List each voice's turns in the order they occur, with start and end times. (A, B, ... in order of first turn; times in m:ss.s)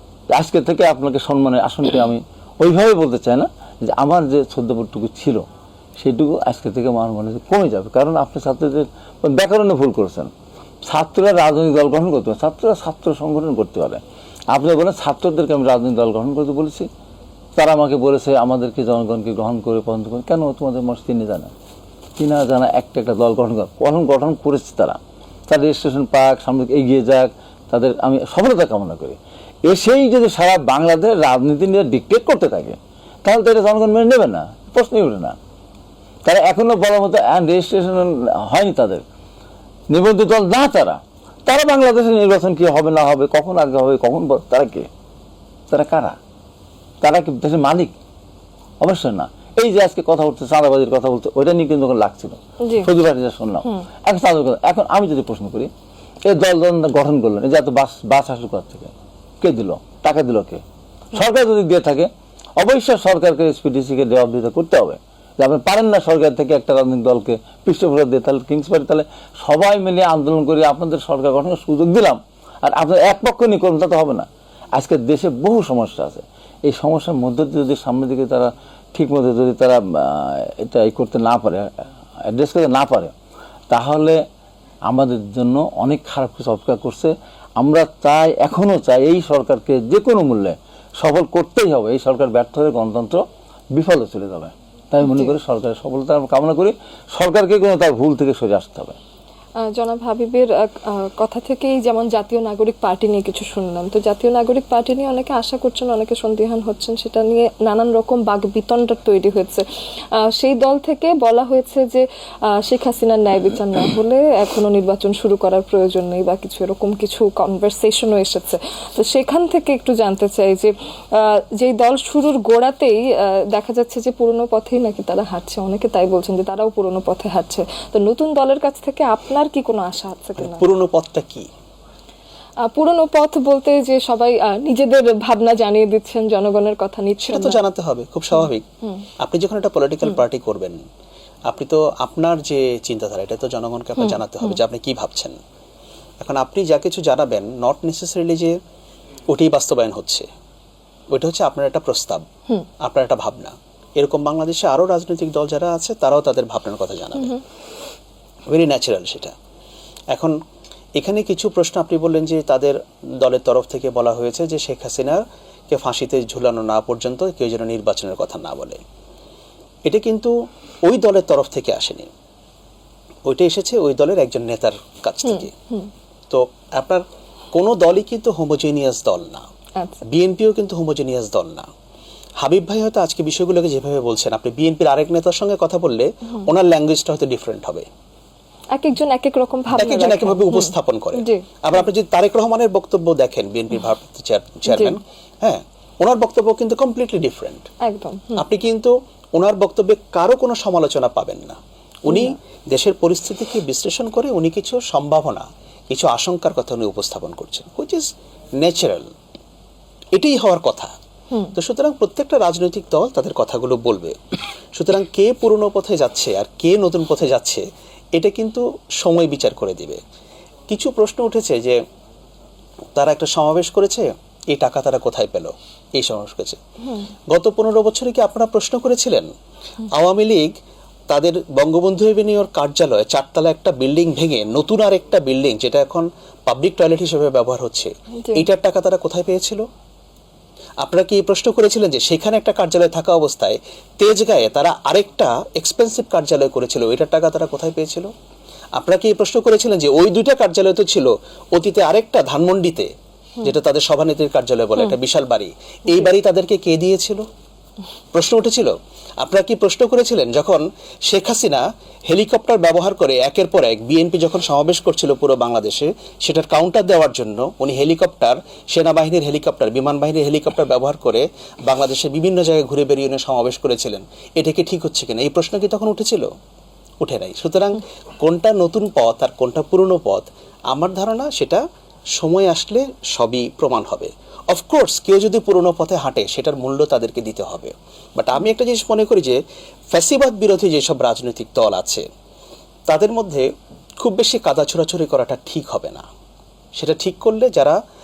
0:00.3-0:05.4 A
0:06.0-0:10.3 A
0:10.8-0:16.9 A
0:17.6-0:21.5 A
0:22.2-0:35.4 A
0:36.2-0:39.0 A
0:39.9-0:44.9 A
0:45.7-0:46.2 A
0:47.0-0:47.9 A
0:48.8-0:55.7 A
0:52.6-0:52.9 B
0:56.2-1:23.1 A
1:23.7-1:24.2 A
1:24.9-1:39.0 A
1:35.0-1:35.3 B
1:39.6-2:10.6 B
2:10.4-2:11.5 C
2:12.6-2:17.6 B
2:17.2-2:18.6 C
2:19.2-2:20.8 C
2:21.5-2:25.4 C
2:26.2-2:28.6 C
2:29.3-2:30.3 C
2:31.1-2:32.3 C
2:32.8-2:37.4 C
2:38.5-2:39.3 C
2:40.1-2:40.4 C
2:41.0-2:48.8 C
2:49.8-2:52.1 C
2:53.2-2:55.5 C
2:56.3-2:59.5 C
3:00.1-3:01.7 C
3:02.4-3:07.9 C
3:08.7-3:11.4 B
3:09.7-3:17.7 C
3:14.7-3:15.0 B
3:17.8-3:18.4 B
3:18.4-3:28.1 C
3:22.1-3:22.4 B
3:28.6-3:29.1 C
3:30.1-3:30.9 C
3:31.6-3:34.2 C
3:34.7-3:40.0 C
3:40.7-3:41.8 C
3:42.9-3:46.6 C
3:47.3-3:49.3 C
3:49.9-3:50.6 C
3:51.1-3:59.6 C
4:00.8-4:08.1 C
4:08.8-4:17.3 C
4:18.1-4:36.3 C
4:37.0-4:41.6 C
4:42.1-4:52.1 C
4:52.9-4:56.1 C
4:56.7-4:57.8 C